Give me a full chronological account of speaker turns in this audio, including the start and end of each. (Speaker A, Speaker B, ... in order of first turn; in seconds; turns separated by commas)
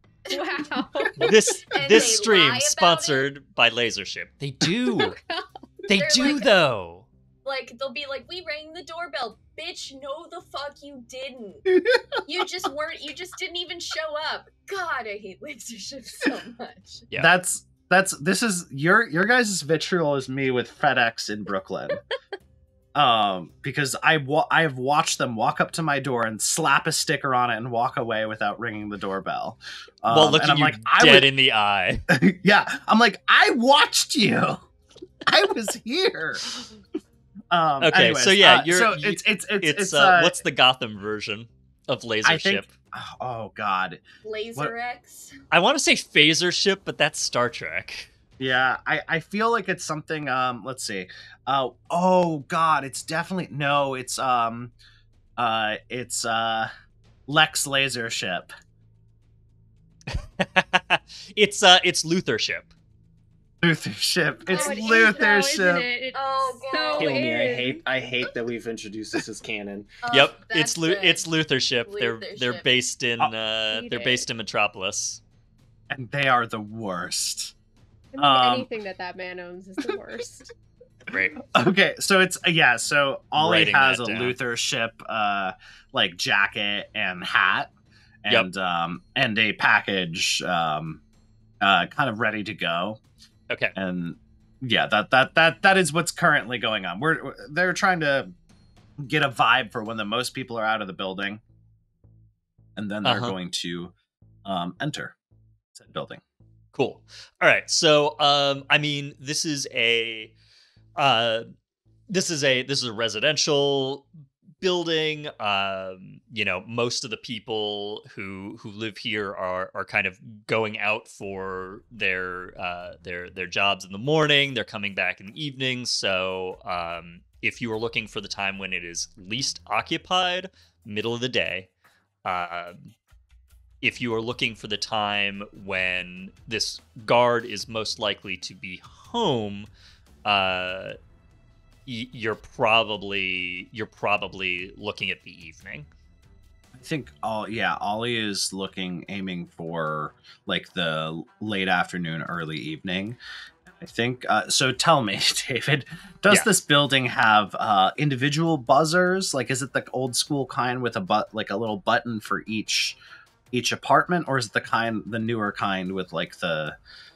Speaker A: 0.3-1.5, Speaker B: 1.2-5.2, Speaker C: 1.7-3.3, Speaker A: 5.1-5.4, Speaker B: 5.8-7.1, Speaker C: 5.9-6.5, Speaker C: 7.4-17.1, Speaker D: 11.7-12.2, Speaker D: 17.1-22.0, Speaker D: 22.9-31.3, Speaker B: 30.1-32.0, Speaker D: 32.1-34.6, Speaker D: 35.2-36.6, Speaker D: 37.5-40.4, Speaker B: 37.8-42.7, Speaker D: 42.2-44.0, Speaker C: 44.2-45.3, Speaker B: 45.5-48.1, Speaker D: 48.4-54.7, Speaker D: 55.4-56.7, Speaker D: 57.3-58.5, Speaker B: 60.1-62.7, Speaker D: 63.6-65.9, Speaker A: 64.5-67.8, Speaker C: 64.5-65.3, Speaker C: 66.1-67.5, Speaker E: 66.9-69.9, Speaker C: 70.0-71.3, Speaker B: 70.1-75.2, Speaker C: 71.8-72.7, Speaker A: 73.7-74.2, Speaker D: 75.9-77.5, Speaker A: 78.1-80.5, Speaker D: 78.2-78.7, Speaker B: 81.1-81.4, Speaker D: 81.4-87.7, Speaker B: 83.3-84.3, Speaker D: 88.2-91.0, Speaker D: 91.6-93.0, Speaker D: 93.8-98.3, Speaker D: 99.0-101.4, Speaker D: 102.8-103.9, Speaker B: 103.0-103.3, Speaker D: 104.4-105.1, Speaker D: 105.7-106.2, Speaker B: 106.7-110.3, Speaker B: 111.0-111.5, Speaker B: 112.1-114.1, Speaker B: 114.6-131.7, Speaker B: 132.2-132.9, Speaker B: 133.8-139.7, Speaker B: 140.2-141.0, Speaker B: 141.8-145.9, Speaker D: 146.7-163.0, Speaker D: 163.5-166.8